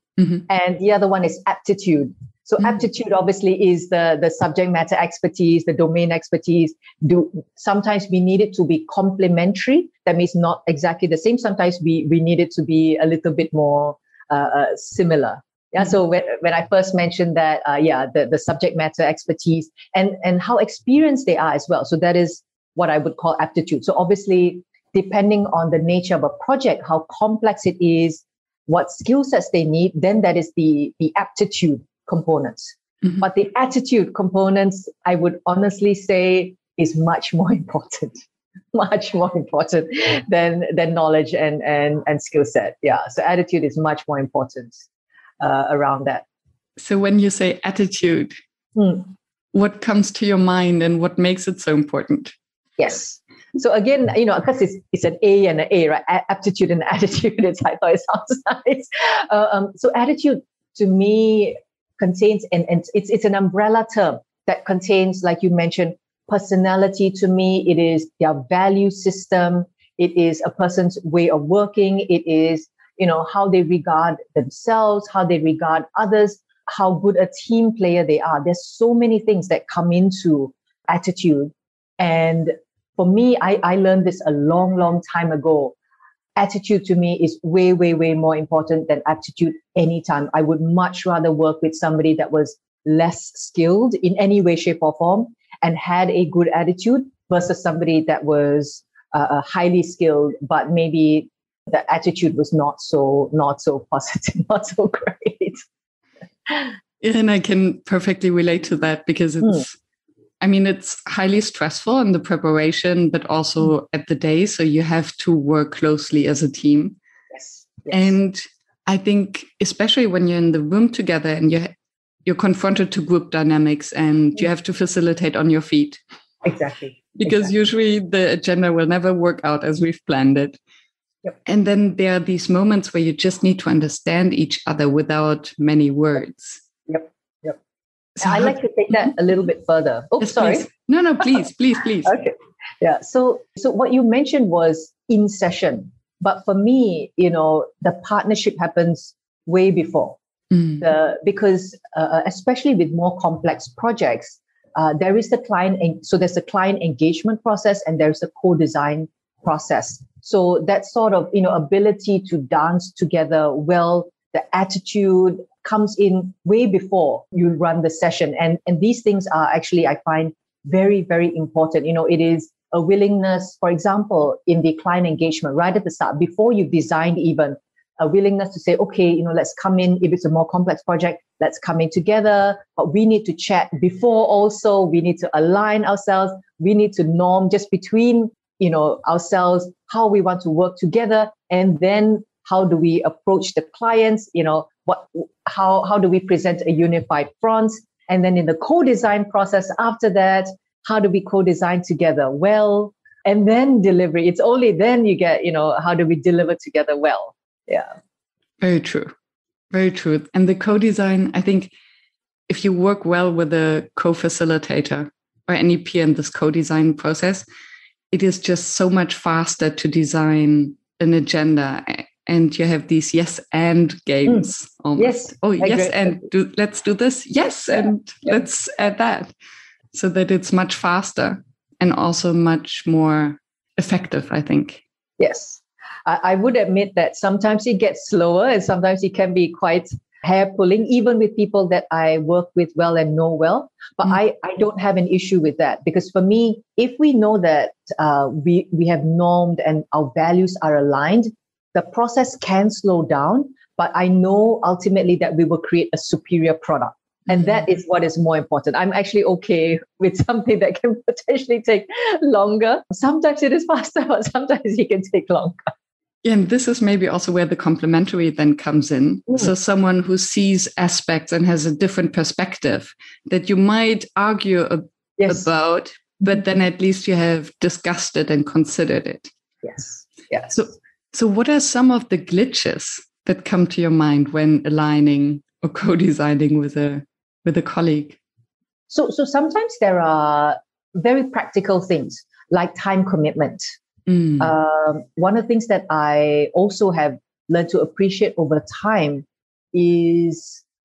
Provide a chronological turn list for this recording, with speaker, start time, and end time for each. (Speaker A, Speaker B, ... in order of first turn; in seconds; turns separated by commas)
Speaker A: 0.2-0.4, Speaker B: 0.5-38.2, Speaker B: 38.7-44.8, Speaker B: 45.4-46.2, Speaker A: 46.8-48.4, Speaker B: 48.8-49.1, Speaker A: 49.5-52.3, Speaker B: 52.8-85.8, Speaker B: 86.3-105.6, Speaker B: 106.5-106.7, Speaker A: 107.0-109.8, Speaker A: 110.4-117.0, Speaker B: 117.3-118.1, Speaker A: 117.9-121.7, Speaker A: 122.2-126.0, Speaker B: 126.4-127.5, Speaker A: 127.1-130.6, Speaker A: 131.5-136.6, Speaker B: 136.9-137.6, Speaker A: 138.2-138.5, Speaker B: 138.2-140.7, Speaker A: 140.2-142.2, Speaker B: 142.1-150.2, Speaker A: 150.5-150.8, Speaker B: 150.8-207.9, Speaker A: 208.6-209.1, Speaker A: 209.7-211.7, Speaker A: 212.5-217.4, Speaker A: 218.1-229.3, Speaker B: 224.2-226.2, Speaker A: 229.9-234.8, Speaker B: 235.2-265.7, Speaker A: 257.3-257.6, Speaker A: 266.2-279.3, Speaker B: 275.2-275.5, Speaker B: 279.6-280.5, Speaker A: 280.5-288.2, Speaker B: 288.9-293.7, Speaker A: 294.1-294.5, Speaker B: 294.4-300.6